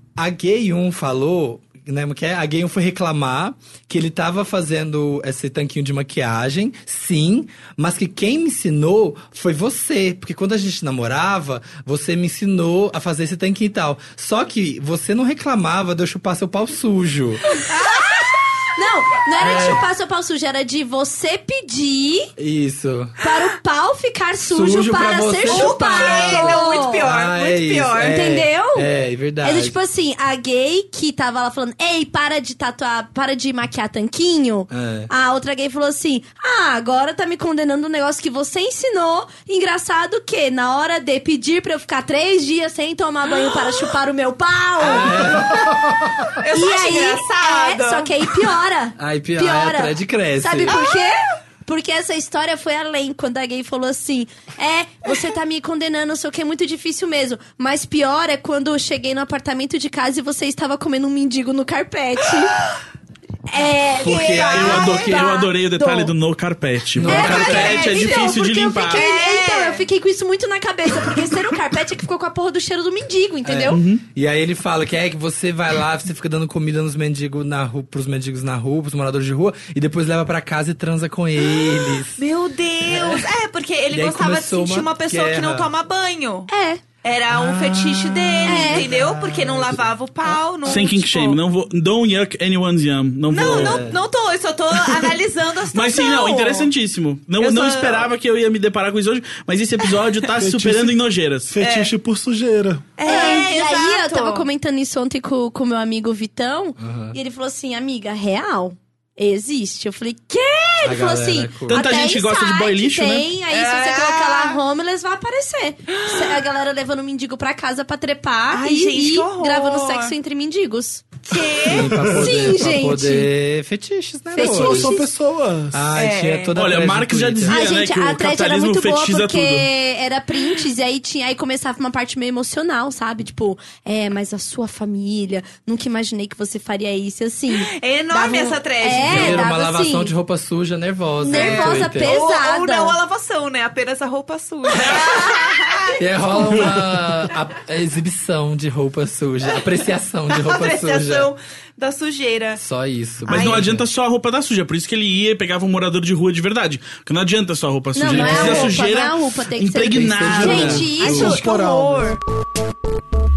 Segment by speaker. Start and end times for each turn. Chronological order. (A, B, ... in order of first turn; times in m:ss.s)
0:00.2-0:17.4 A
0:17.7-0:22.3 B
0:19.4-0:19.8 A
0:22.4-0:23.2 A
0:23.2-0:27.1 B
0:24.4-0:29.8 A
0:25.4-0:28.2 C
0:28.0-0:28.9 B
0:29.4-0:45.7 B
0:34.7-0:35.1 A
0:44.8-0:45.7 A
0:46.4-0:48.1 C
0:46.5-1:02.6 B
0:49.0-0:50.8 A
0:50.7-0:51.0 C
1:03.5-1:06.1 B
1:04.0-1:05.4 A
1:04.5-1:09.0 D
1:06.9-1:08.0 A
1:07.0-1:13.8 B
1:07.6-1:09.8 C
1:13.4-1:22.2 A
1:13.7-1:14.0 D
1:22.1-1:26.5 C
1:22.8-1:23.3 A
1:23.9-1:25.7 A
1:26.5-1:26.8 B
1:27.0-1:31.4 C
1:27.3-1:29.8 A
1:28.4-1:28.9 B
1:30.6-1:33.8 D
1:33.3-1:36.7 C
1:33.3-1:34.0 A
1:35.7-1:41.5 D
1:37.4-1:38.1 C
1:40.4-1:42.9 E
1:41.6-1:41.9 C
1:43.0-1:44.4 C
1:43.0-2:01.2 B
1:46.8-1:47.2 A
1:50.8-1:51.8 A
1:51.7-1:53.3 D
1:53.5-1:54.6 C
1:58.5-2:00.1 C
2:01.2-2:02.0 C
2:01.6-2:05.0 A
2:01.7-2:02.4 E
2:02.1-2:03.3 B
2:04.3-2:05.1 B
2:04.4-2:05.9 E
2:05.7-2:07.6 A
2:05.9-2:06.5 C
2:06.5-2:09.7 D
2:07.5-2:20.1 B
2:17.6-2:19.5 C
2:18.9-2:22.1 A
2:21.2-2:23.0 B
2:21.3-2:26.0 C
2:26.0-2:31.3 A
2:26.5-2:26.8 D
2:30.3-2:32.6 C
2:32.6-2:33.8 A
2:33.3-2:33.7 C
2:33.3-2:40.9 D
2:37.9-2:41.9 B
2:38.0-2:38.8 A
2:40.0-2:41.3 A
2:40.4-2:42.2 E
2:41.0-2:41.5 C